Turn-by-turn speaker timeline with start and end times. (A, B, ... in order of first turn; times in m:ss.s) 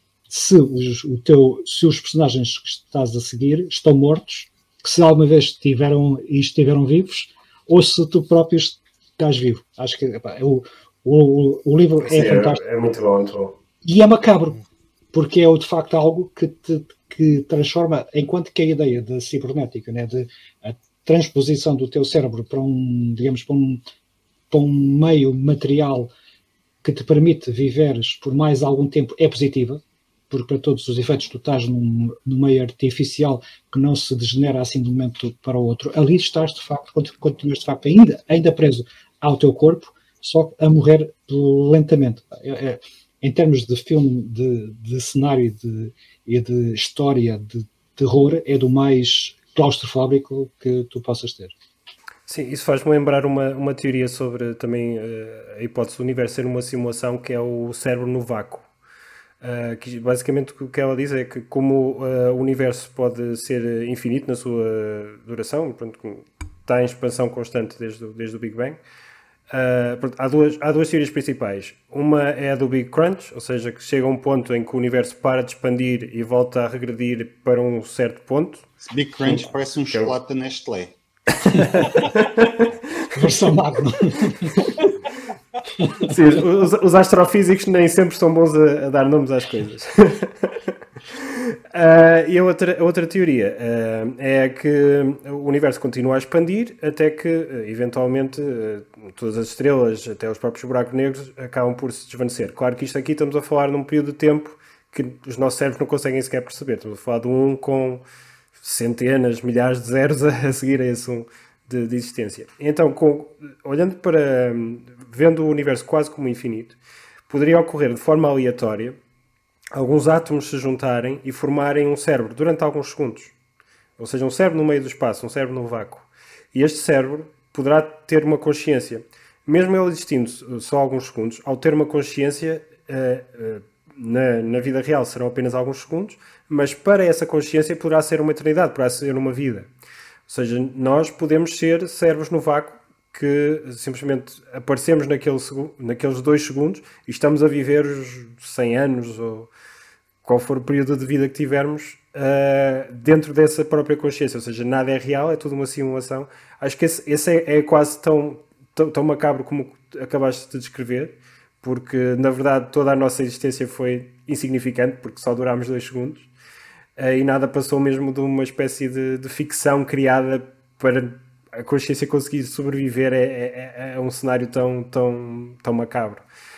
0:00.3-0:12.6 A
0:12.0-0:13.6 B
0:13.8-0:14.6 A
0:15.1-0:23.8 A
0:24.5-0:26.1 A
0:26.8-0:51.5 A
0:52.3-0:58.7 B
0:59.4-1:08.8 B
1:09.5-1:18.7 B
1:18.8-1:20.9 C
1:21.4-1:22.7 B
1:23.1-1:24.8 A
1:25.8-1:26.1 A
1:26.0-1:30.6 B
1:31.1-1:48.0 B
1:48.6-1:59.0 B
1:59.8-2:03.3 B
2:04.0-2:19.7 B
2:20.3-2:29.5 B
2:30.2-2:46.3 B
2:47.0-2:56.2 B